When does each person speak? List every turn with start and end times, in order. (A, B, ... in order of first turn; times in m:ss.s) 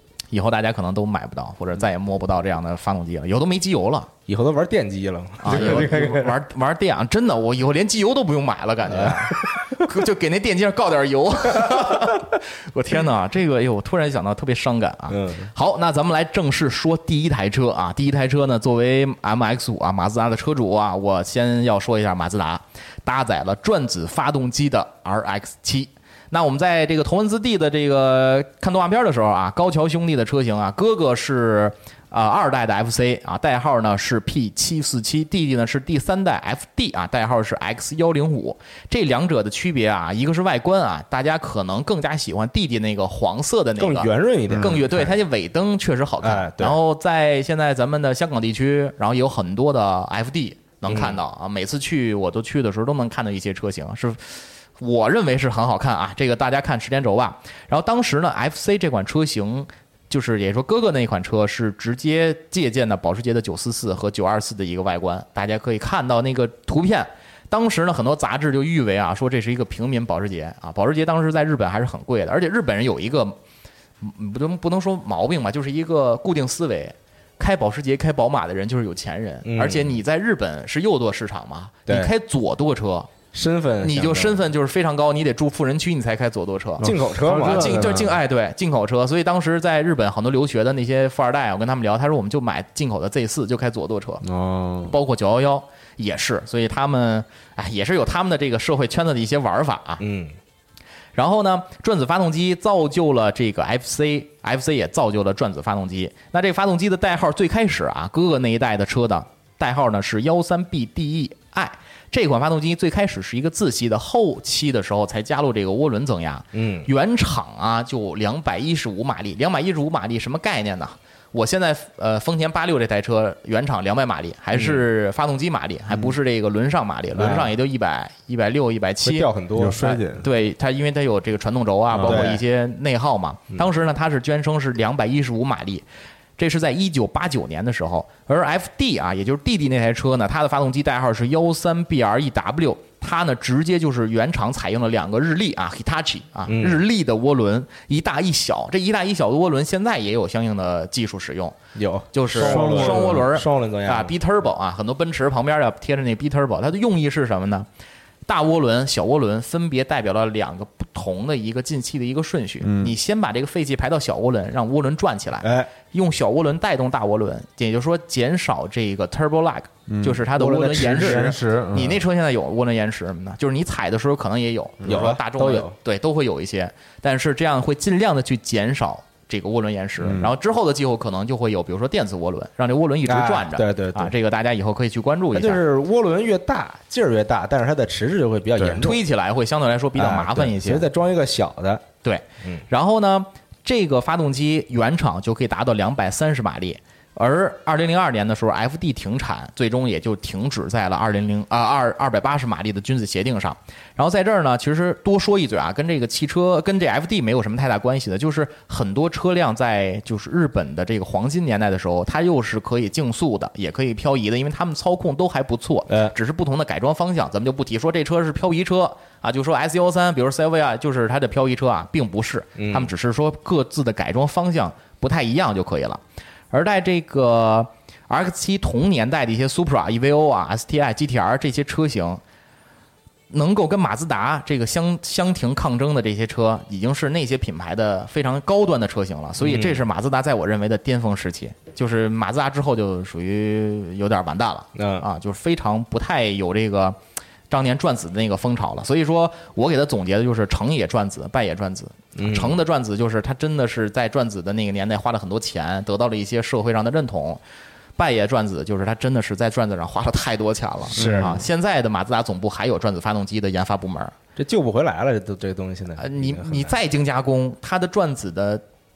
0:00.3-0:04.1 A
0:04.3-0:06.4 B
0:05.4-1:13.4 A
0:08.9-0:09.8 B
0:11.6-0:11.9 B
0:15.1-0:15.5 B
0:43.8-0:45.1 B
0:44.5-0:44.8 C
0:46.2-0:46.8 B
0:50.9-0:51.2 B
1:14.0-1:23.1 A
1:19.4-1:20.0 B
1:21.9-1:22.1 B
1:23.3-1:24.4 B
1:23.8-1:26.9 A
1:26.8-1:28.2 C
1:26.8-1:27.8 B
1:27.4-1:34.2 A
1:34.2-1:34.9 C
1:34.8-1:40.0 A
1:40.0-1:40.4 B
1:41.1-2:15.8 A
1:56.5-1:56.9 B
2:04.5-2:04.8 B
2:07.1-2:07.5 B
2:09.0-2:10.0 B
2:09.5-2:10.2 C
2:12.0-2:12.4 B
2:12.0-2:12.3 C
2:16.4-2:31.6 A
2:26.5-2:26.8 B
2:31.7-2:34.1 B
2:32.1-2:37.7 A
2:32.4-2:33.3 C
2:38.2-3:05.6 A
2:42.6-2:42.9 C
2:45.4-2:45.7 B
2:49.9-2:52.0 C
2:50.4-2:51.3 B
2:54.8-2:55.1 C
2:54.8-2:55.7 B
3:00.0-3:00.3 C
3:03.0-3:04.1 B
3:05.3-3:09.0 B
3:08.6-3:10.9 A
3:10.0-3:11.8 B
3:12.0-3:52.2 A
3:35.9-3:36.1 B
3:42.6-3:42.9 B
3:53.3-4:07.0 A
3:59.4-3:59.8 B
4:04.8-4:05.0 B
4:07.5-4:17.4 A
4:12.2-4:12.6 B
4:18.0-4:24.1 A
4:20.9-4:21.4 B
4:20.9-4:21.4 C
4:24.4-4:26.7 B
4:26.0-4:28.6 A